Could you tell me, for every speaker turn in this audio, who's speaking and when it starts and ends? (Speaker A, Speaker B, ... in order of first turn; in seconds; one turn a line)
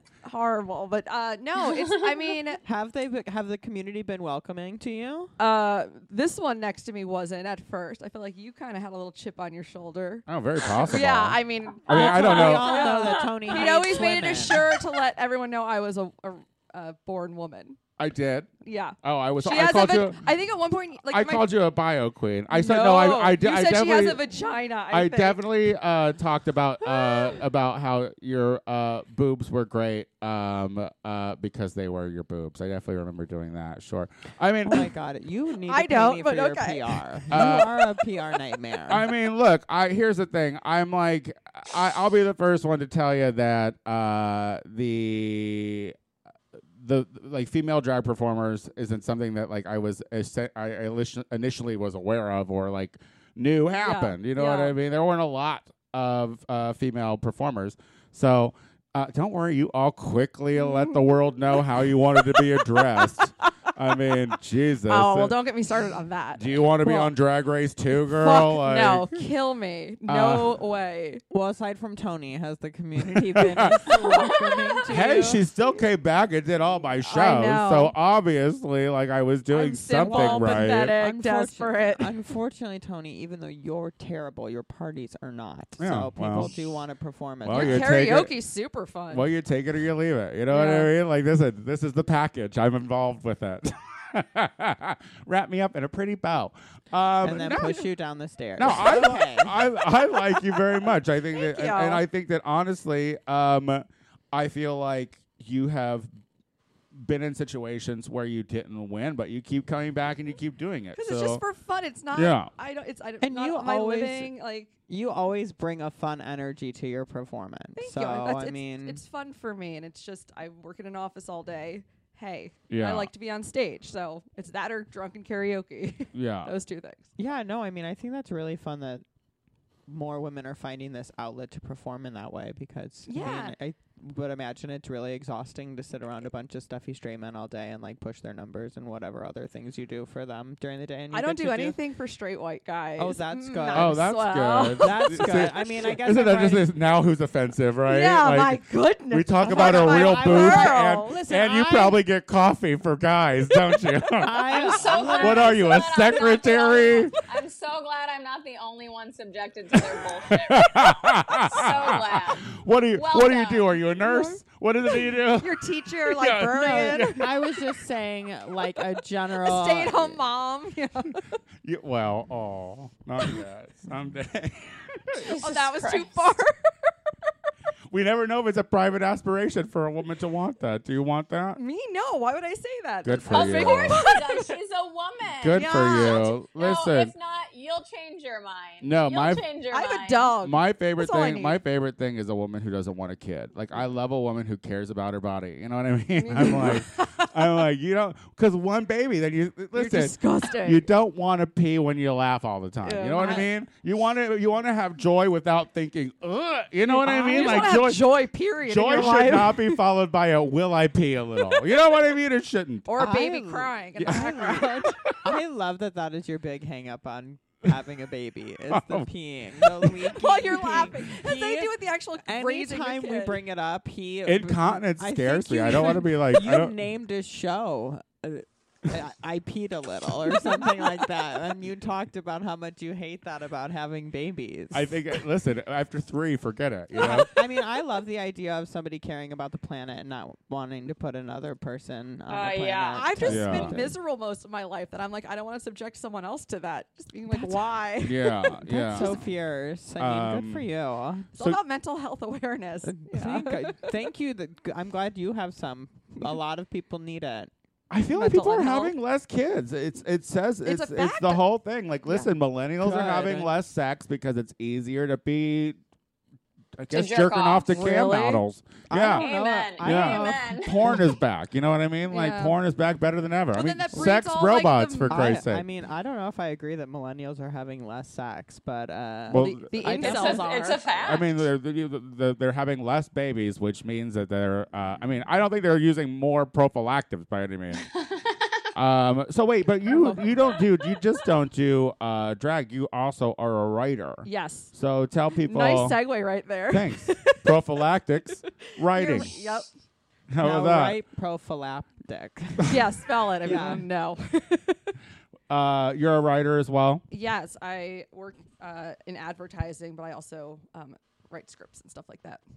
Speaker A: 0.2-2.6
Speaker B: 2.6-5.3
Speaker A: 5.4-17.8
Speaker C: 10.3-13.0
Speaker B: 11.9-14.6
Speaker D: 13.0-13.3
Speaker C: 18.0-18.5
Speaker A: 18.6-21.5
Speaker C: 19.0-20.3
Speaker C: 21.1-24.2
Speaker A: 22.5-25.4
Speaker C: 24.9-34.9
Speaker B: 34.6-39.0
Speaker A: 35.7-37.6
Speaker C: 37.3-37.7
Speaker C: 38.9-46.0
Speaker C: 46.7-65.4
Speaker A: 53.7-54.7
Speaker A: 60.6-60.9
Speaker A: 62.3-63.3
Speaker A: 64.8-67.1
Speaker C: 66.3-69.2
Speaker A: 68.0-71.2
Speaker C: 70.0-70.6
Speaker B: 71.3-75.4
Speaker C: 73.0-74.2
Speaker A: 73.8-74.4
Speaker D: 74.1-74.7
Speaker C: 74.9-81.0
Speaker A: 74.9-75.3
Speaker A: 77.0-77.9
Speaker A: 79.5-82.1
Speaker B: 80.0-87.9
Speaker C: 85.8-86.5
Speaker C: 87.4-88.3
Speaker A: 87.5-89.3
Speaker C: 89.1-97.8
Speaker A: 90.5-90.9
Speaker B: 97.2-99.6
Speaker A: 97.4-97.8
Speaker C: 98.6-106.1
Speaker A: 100.2-102.0
Speaker C: 106.9-111.4
Speaker A: 111.0-114.7
Speaker C: 112.1-112.5
Speaker B: 113.2-114.3
Speaker B: 114.9-119.0
Speaker A: 117.8-127.1
Speaker C: 122.7-123.1
Speaker C: 126.1-126.5
Speaker B: 127.2-129.0
Speaker B: 129.9-141.8
Speaker A: 133.1-133.5
Speaker A: 141.1-145.6
Speaker B: 143.0-144.2
Speaker C: 143.7-157.1
Speaker B: 144.8-146.7
Speaker A: 147.8-151.2
Speaker B: 149.4-152.0
Speaker B: 154.2-155.6
Speaker D: 154.5-163.8
Speaker C: 159.8-167.3
Speaker A: 163.9-164.4
Speaker A: 165.4-167.3
Speaker B: 166.5-170.2
Speaker A: 169.4-171.4
Speaker C: 171.6-175.3
Speaker D: 175.2-176.2
Speaker A: 175.4-176.6
Speaker C: 177.9-181.6
Speaker A: 181.6-184.5
Speaker C: 183.0-184.0
Speaker D: 183.3-190.3
Speaker C: 185.4-187.1
Speaker A: 185.5-186.4
Speaker C: 188.8-189.5
Speaker A: 189.7-191.6
Speaker C: 190.4-212.9
Speaker A: 196.2-197.7
Speaker A: 199.7-200.8
Speaker A: 202.8-203.4
Speaker A: 206.8-209.8
Speaker A: 211.5-211.8
Speaker A: 212.8-215.1
Speaker B: 213.0-221.7
Speaker C: 213.9-215.1
Speaker C: 218.7-219.1
Speaker C: 219.6-219.9
Speaker A: 220.0-223.4
Speaker B: 222.2-235.0
Speaker C: 224.2-226.7
Speaker C: 234.7-237.3
Speaker B: 237.0-243.9
Speaker D: 242.3-243.1
Speaker A: 242.9-249.3
Speaker C: 243.2-243.8
Speaker B: 247.3-247.7
Speaker C: 248.0-249.1
Speaker B: 248.9-251.3
Speaker C: 250.0-250.7
Speaker A: 251.3-253.9
Speaker B: 252.8-257.5
Speaker C: 257.9-265.8
Speaker A: 258.1-258.9
Speaker A: 260.6-261.4
Speaker B: 262.1-263.6
Speaker C: 266.8-275.6
Speaker D: 266.9-267.9
Speaker A: 267.7-268.4
Speaker B: 268.9-271.1
Speaker D: 269.1-271.1
Speaker A: 272.1-272.6
Speaker A: 273.5-275.4
Speaker B: 275.1-280.5
Speaker C: 279.3-279.7
Speaker A: 279.3-280.8
Speaker D: 279.9-281.4
Speaker C: 281.0-287.8
Speaker C: 288.7-296.0
Speaker A: 289.9-290.4
Speaker A: 294.2-294.7
Speaker A: 295.4-297.6
Speaker C: 296.7-299.4
Speaker A: 298.8-299.7
Speaker C: 300.3-301.0
Speaker B: 300.4-302.7
Speaker A: 302.6-304.8
Speaker B: 303.4-303.8
Speaker C: 305.5-307.0
Speaker A: 307.1-312.4